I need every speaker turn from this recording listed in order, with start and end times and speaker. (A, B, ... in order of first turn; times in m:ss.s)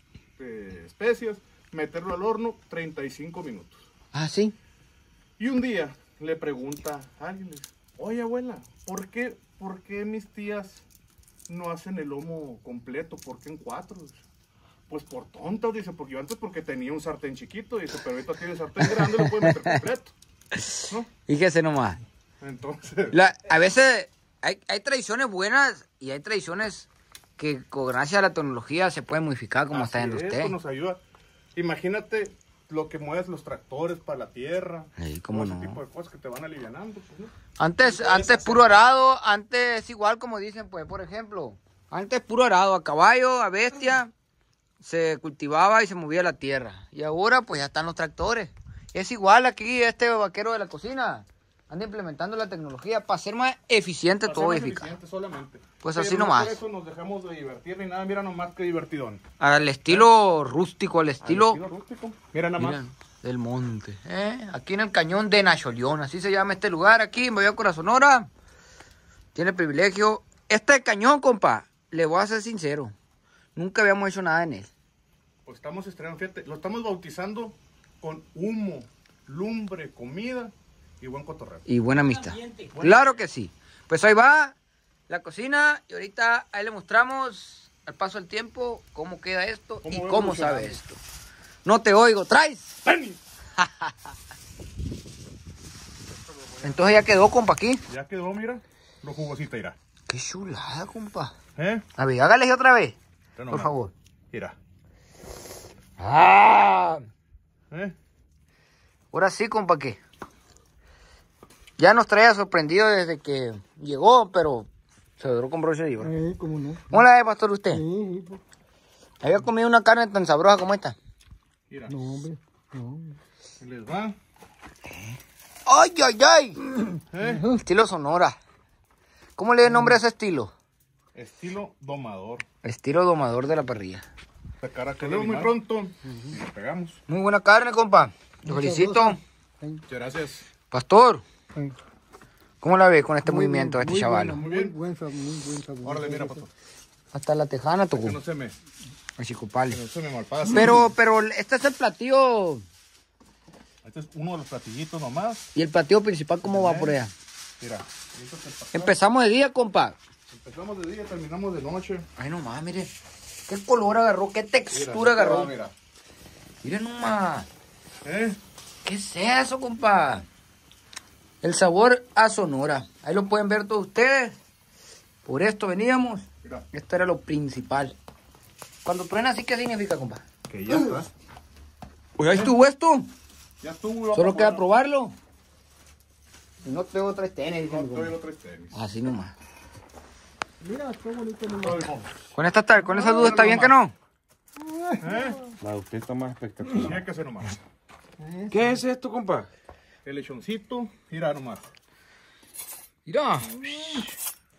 0:00.4-0:03.8 A
0:04.1-0:04.5 B
0:05.4-0:10.8 A
0:11.5-0:14.2 A
0:14.9-0:20.2 A
0:18.8-0:19.8 B
0:20.6-0:22.0 B
0:22.4-0:23.2 A
0:23.1-0:30.6 B
0:29.7-0:31.0 A
0:31.6-0:38.8 A
0:35.0-0:35.8 B
0:37.6-0:44.1 B
0:44.8-0:54.9 B
0:54.2-0:59.2 A
0:55.8-0:56.6 B
0:59.4-1:01.6 B
1:01.2-1:02.8 A
1:02.6-1:08.3 B
1:09.4-1:12.9 B
1:13.6-1:14.7 B
1:15.4-1:21.6 A
1:21.7-1:24.6 B
1:22.1-1:22.7 C
1:22.7-1:23.2 A
1:25.1-1:31.0 B
1:29.8-1:30.8 A
1:31.6-1:32.8 B
1:32.8-1:33.2 A
1:33.6-1:33.9 B
1:36.3-1:37.0 A
1:36.6-1:37.8 B
1:37.9-1:39.8 A
1:40.1-1:41.3 B
1:41.6-1:41.8 A
1:42.0-1:43.0 B
1:43.4-1:43.8 A
1:43.5-1:43.9 B
1:46.0-1:47.0 B
1:49.1-1:50.0 B
1:51.8-1:56.2 B
1:56.0-1:57.0 C
1:56.9-1:57.8 B
1:57.7-1:58.4 C
1:59.2-2:01.0 B
2:01.7-2:02.0 A
2:01.9-2:03.2 C
2:03.6-2:04.2 A
2:04.9-2:06.6 B
2:07.1-2:07.5 A
2:07.2-2:07.6 C
2:07.5-2:08.4 B
2:09.4-2:10.5 B
2:09.7-2:10.0 C
2:11.2-2:12.4 A
2:12.6-2:14.0 B
2:14.6-2:17.0 A
2:15.1-2:15.5 C
2:17.1-2:19.2 B
2:18.4-2:19.8 C
2:19.9-2:20.5 A
2:20.7-2:21.2 B
2:22.6-2:24.4 B
2:23.2-2:26.5 C
2:24.3-2:24.7 A
2:25.8-2:26.5 A
2:27.1-2:28.2 B
2:27.9-2:28.6 A
2:29.2-2:29.8 B
2:29.7-2:30.9 A
2:30.5-2:32.6 B
2:33.8-2:35.5 A
2:35.6-2:37.1 B
2:36.4-2:37.0 A
2:37.6-2:39.0 A
2:38.7-2:40.0 B
2:40.3-2:42.1 A
2:42.2-2:42.9 B
2:43.5-2:45.5 B
2:44.7-2:45.7 A
2:46.6-2:47.5 B
2:48.0-2:48.4 A
2:48.8-2:50.3 B
2:51.4-2:54.4 B
2:55.2-2:58.0 B
2:58.8-3:00.2 B
3:00.5-3:01.1 A
3:02.2-3:03.1 B
3:02.2-3:02.5 A
3:03.6-3:04.7 A
3:04.2-3:05.2 B
3:06.6-3:08.1 B
3:07.7-3:08.8 A
3:08.7-3:09.3 B
3:10.6-3:11.9 C
3:11.6-3:12.1 A
3:12.4-3:13.9 B
3:12.9-3:13.8 A
3:14.6-3:15.5 C
3:15.0-3:15.4 A
3:15.6-3:17.0 D
3:16.8-3:17.6 A
3:18.2-3:18.8 C
3:18.5-3:19.5 D
3:20.0-3:21.7 A
3:23.1-3:24.1 B